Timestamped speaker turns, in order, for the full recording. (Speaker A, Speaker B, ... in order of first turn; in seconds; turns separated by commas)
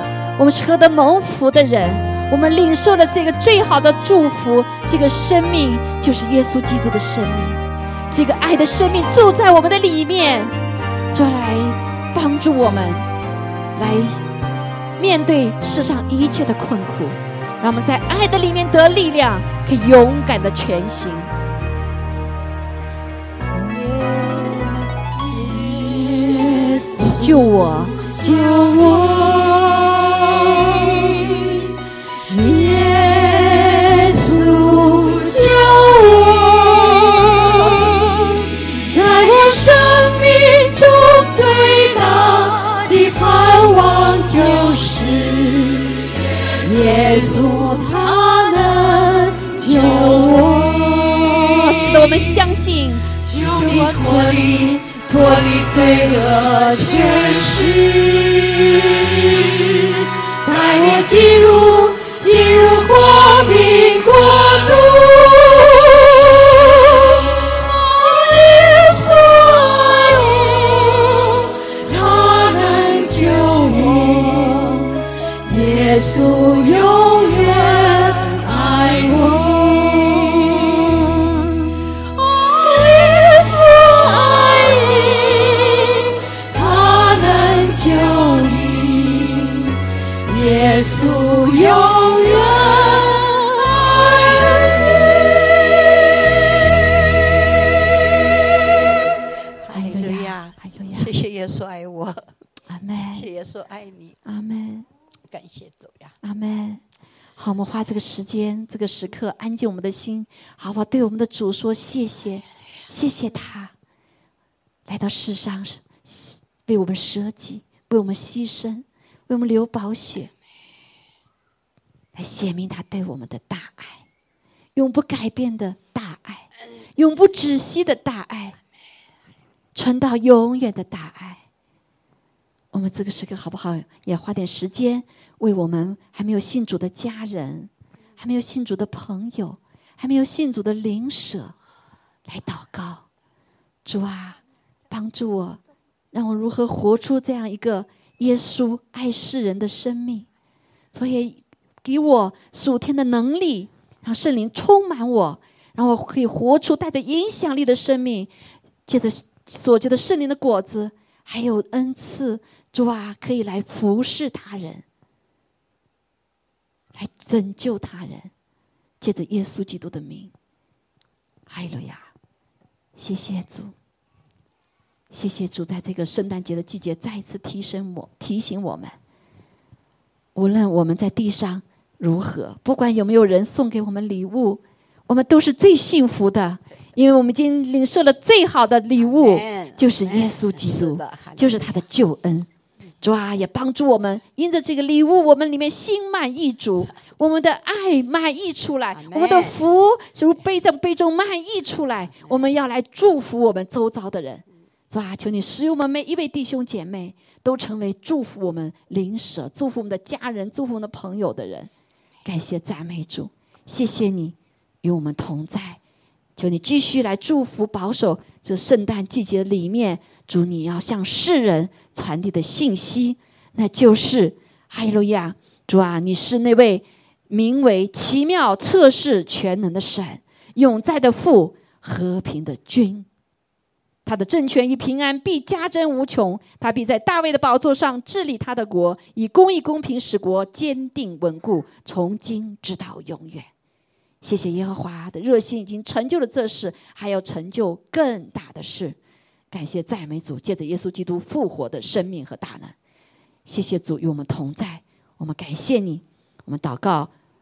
Speaker A: 0.4-10.6, Speaker A: 11.1-13.1, Speaker A: 13.8-14.2, Speaker A: 15.0-21.3, Speaker B: 23.6-27.4, Speaker A: 27.1-28.0, Speaker B: 27.9-31.7, Speaker B: 32.3-52.2, Speaker A: 51.5-53.1, Speaker B: 53.1-81.7, Speaker B: 82.2-94.8, Speaker C: 99.6-102.2, Speaker A: 99.7-101.1, Speaker A: 102.7-103.3, Speaker C: 102.9-104.2, Speaker A: 104.3-104.9, Speaker C: 105.3-106.1, Speaker A: 106.2-106.8, Speaker A: 107.4-113.7, Speaker A: 114.9-120.3, Speaker A: 122.2-124.0, Speaker A: 124.8-128.6, Speaker A: 129.8-131.4, Speaker A: 132.7-141.6, Speaker A: 142.3-143.1, Speaker A: 143.8-145.6, Speaker A: 146.1-150.3, Speaker A: 150.9-158.3, Speaker A: 158.9-164.8, Speaker A: 166.9-168.3, Speaker A: 169.0-170.3, Speaker A: 171.5-172.0, Speaker A: 173.0-173.7, Speaker A: 175.1-178.9, Speaker A: 180.3-192.5, Speaker C: 189.0-191.8, Speaker A: 193.0-211.7, Speaker C: 198.9-199.6, Speaker A: 212.2-215.8, Speaker A: 216.4-233.1, Speaker A: 234.1-243.5, Speaker A: 244.2-249.0, Speaker A: 249.5-252.7, Speaker A: 253.5-257.1